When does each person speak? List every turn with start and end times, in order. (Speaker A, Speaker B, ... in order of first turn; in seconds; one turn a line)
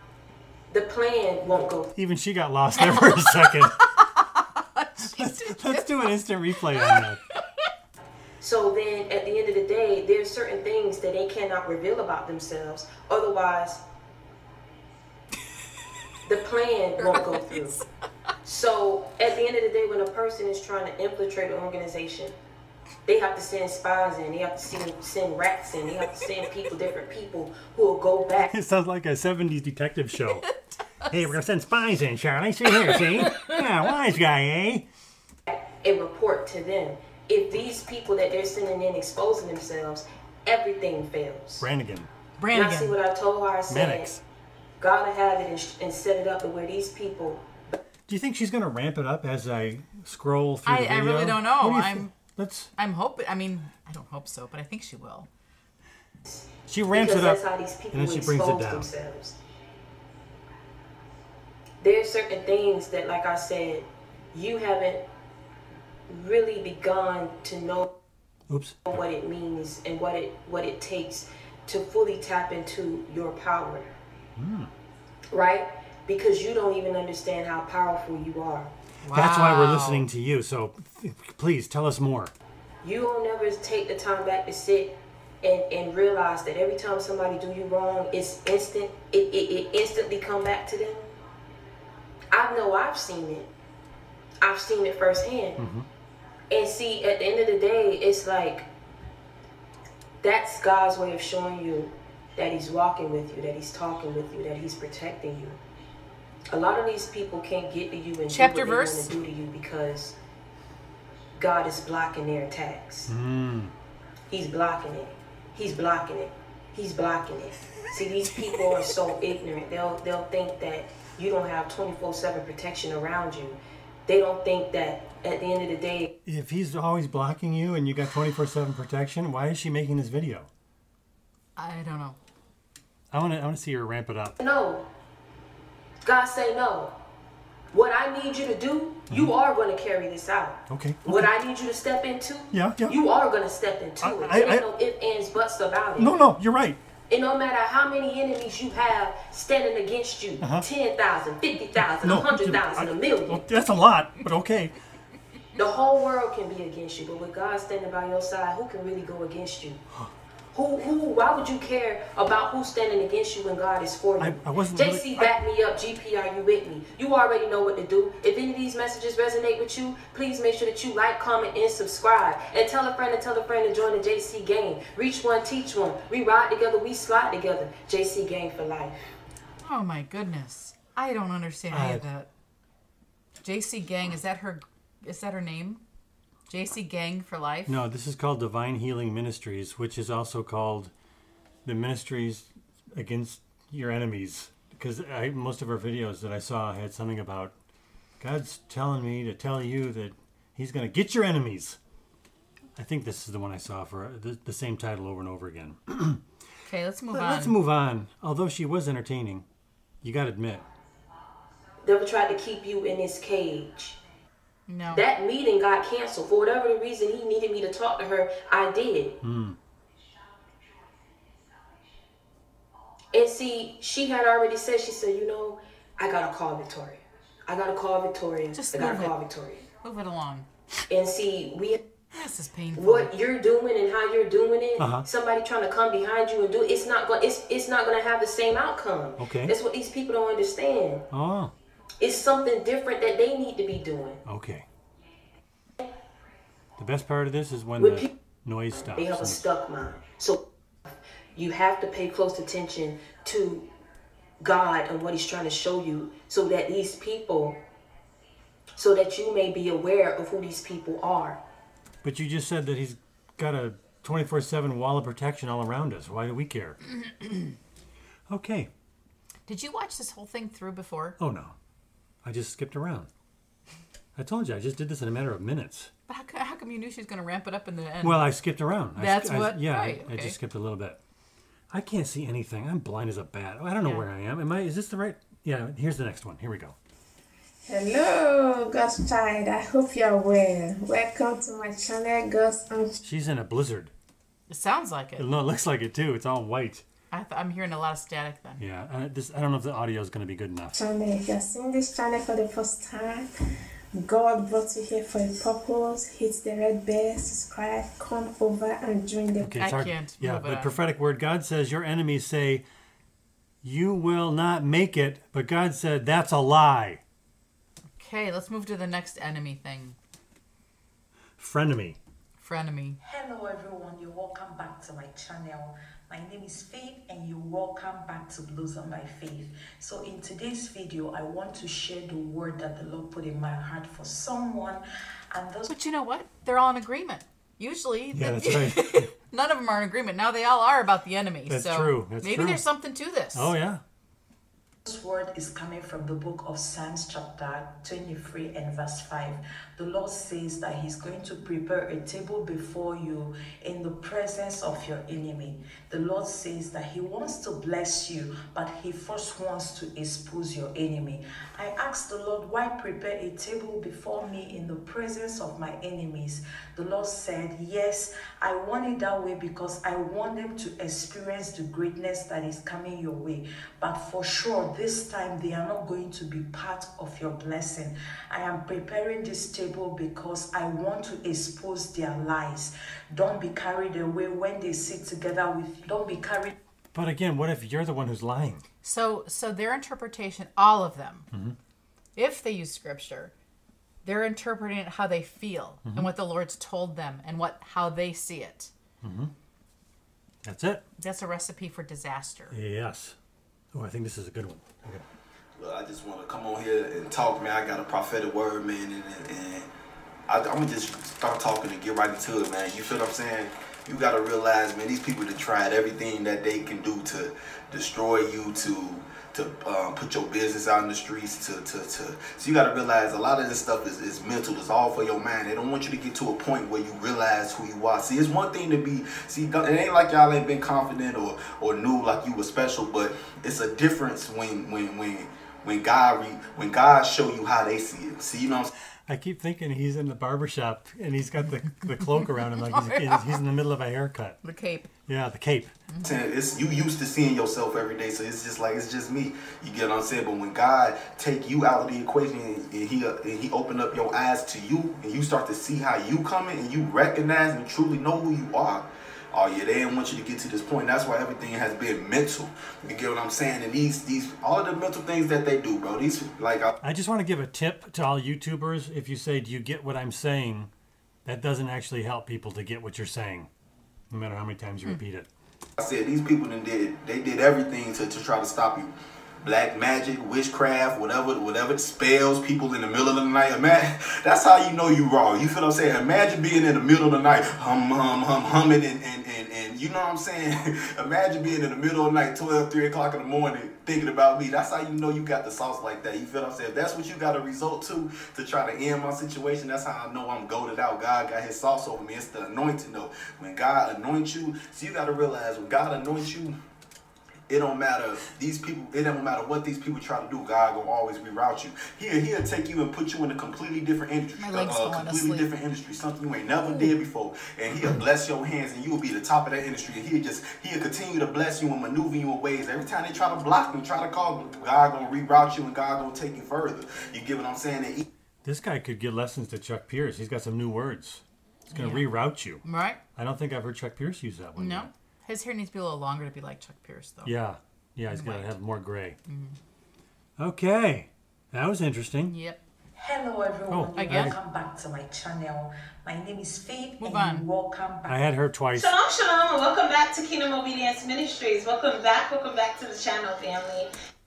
Speaker A: 0.7-1.9
Speaker B: 1.9-3.8
Speaker C: 2.8-6.1
Speaker B: 5.0-7.2
Speaker C: 6.8-7.6
Speaker A: 8.4-13.8
Speaker A: 16.2-17.8
Speaker A: 18.4-22.3
Speaker A: 23.1-28.5
Speaker B: 28.5-30.4
Speaker C: 30.4-31.1
Speaker B: 31.1-34.9
Speaker C: 32.9-33.6
Speaker A: 35.5-41.7
Speaker B: 41.6-42.1
Speaker C: 42.4-43.0
Speaker A: 42.5-44.1
Speaker B: 43.7-44.2
Speaker A: 44.8-47.7
Speaker B: 48.1-52.7
Speaker C: 50.6-52.1
Speaker C: 52.8-55.3
Speaker A: 56.2-59.4
Speaker B: 56.7-58.9
Speaker A: 61.8-65.0
Speaker A: 66.1-67.9
Speaker B: 68.5-68.8
Speaker A: 68.9-73.9
Speaker B: 74.3-74.7
Speaker A: 75.3-78.7
Speaker C: 79.0-80.1
Speaker B: 79.1-82.3
Speaker A: 82.8-91.1
Speaker A: 92.3-93.5
Speaker A: 94.4-95.7
Speaker B: 95.6-95.9
Speaker A: 96.5-98.7
Speaker A: 100.2-105.6
Speaker A: 106.5-110.2
Speaker C: 108.3-109.2
Speaker A: 111.3-113.1
Speaker B: 113.1-113.7
Speaker A: 114.3-126.1
Speaker B: 126.2-130.5
Speaker C: 131.6-132.2
Speaker B: 133.1-134.4
Speaker A: 134.4-134.9
Speaker A: 136.0-137.0
Speaker A: 137.7-146.1
Speaker B: 140.7-141.3
Speaker B: 142.5-143.0
Speaker B: 144.0-144.7
Speaker B: 146.0-146.8
Speaker A: 147.1-153.5
Speaker B: 150.4-150.7
Speaker B: 151.8-154.8
Speaker A: 155.6-159.8
Speaker A: 160.5-179.0
Speaker B: 164.2-165.4
Speaker C: 179.6-182.3
Speaker B: 181.7-182.0
Speaker C: 183.4-185.8
Speaker C: 186.5-187.8
Speaker B: 187.7-190.9
Speaker B: 191.6-197.5
Speaker B: 198.2-201.8
Speaker B: 202.8-206.2
Speaker C: 206.7-207.6
Speaker B: 207.1-209.4
Speaker B: 210.0-210.7
Speaker A: 211.8-214.0
Speaker C: 214.7-215.0
Speaker A: 214.9-219.2
Speaker B: 219.2-219.6
Speaker A: 223.1-229.7
Speaker C: 228.5-229.1
Speaker C: 229.8-230.5
Speaker A: 230.9-231.8
Speaker C: 232.1-233.1
Speaker A: 232.7-241.1
Speaker B: 234.8-235.1
Speaker B: 239.2-239.5
Speaker B: 241.1-241.5
Speaker A: 242.0-244.2
Speaker B: 244.2-244.7
Speaker B: 246.8-249.4
Speaker A: 247.8-248.1
Speaker A: 248.8-253.7
Speaker A: 254.4-257.6
Speaker A: 258.8-261.4
Speaker B: 262.0-266.8
Speaker C: 266.9-267.5
Speaker B: 268.3-268.7
Speaker C: 269.5-271.2
Speaker B: 271.2-271.5
Speaker B: 272.2-273.1
Speaker B: 274.1-275.9
Speaker C: 276.1-278.3
Speaker B: 278.0-281.0
Speaker C: 279.0-280.4
Speaker B: 281.7-286.8
Speaker D: 287.7-292.9
Speaker B: 293.0-293.9
Speaker C: 294.5-295.3
Speaker B: 295.2-296.8
Speaker C: 297.1-298.6
Speaker B: 298.6-300.8
Speaker D: 300.7-303.3
Speaker D: 303.9-309.6
Speaker B: 309.4-312.6
Speaker C: 309.6-310.7
Speaker B: 313.6-317.0
Speaker C: 318.0-320.0
Speaker B: 321.4-322.0
Speaker C: 322.4-323.0
Speaker E: 323.0-335.7
Speaker C: 335.7-343.5
Speaker B: 338.1-339.1
Speaker B: 341.5-342.6
Speaker B: 343.3-343.8
Speaker E: 344.9-386.5
Speaker B: 386.9-388.6
Speaker C: 388.8-391.3
Speaker B: 391.3-391.6
Speaker C: 392.1-393.3
Speaker C: 394.0-398.7
Speaker B: 399.0-399.3
Speaker B: 400.4-400.8
Speaker C: 401.0-402.6
Speaker B: 402.5-403.1
Speaker B: 403.7-405.0
Speaker F: 405.6-409.7
Speaker F: 410.3-438.7
Speaker B: 439.1-444.4
Speaker C: 442.0-443.4
Speaker C: 444.4-444.9
Speaker B: 445.1-445.7
Speaker F: 446.0-466.7
Speaker B: 466.8-470.7
Speaker B: 471.2-473.5
Speaker B: 474.1-475.3
Speaker F: 475.8-478.9
Speaker F: 479.4-506.5
Speaker F: 507.5-528.0
Speaker C: 514.4-515.5
Speaker B: 528.4-532.6
Speaker C: 531.7-532.1
Speaker C: 532.6-533.0
Speaker B: 533.1-534.9
Speaker C: 534.6-537.3
Speaker B: 537.2-539.2
Speaker C: 538.1-538.5
Speaker C: 539.3-539.6
Speaker B: 540.4-542.3
Speaker C: 542.3-542.6
Speaker E: 542.9-548.2
Speaker B: 543.7-544.4
Speaker C: 544.0-544.4
Speaker C: 547.0-547.5
Speaker B: 548.0-549.0
Speaker G: 548.7-553.9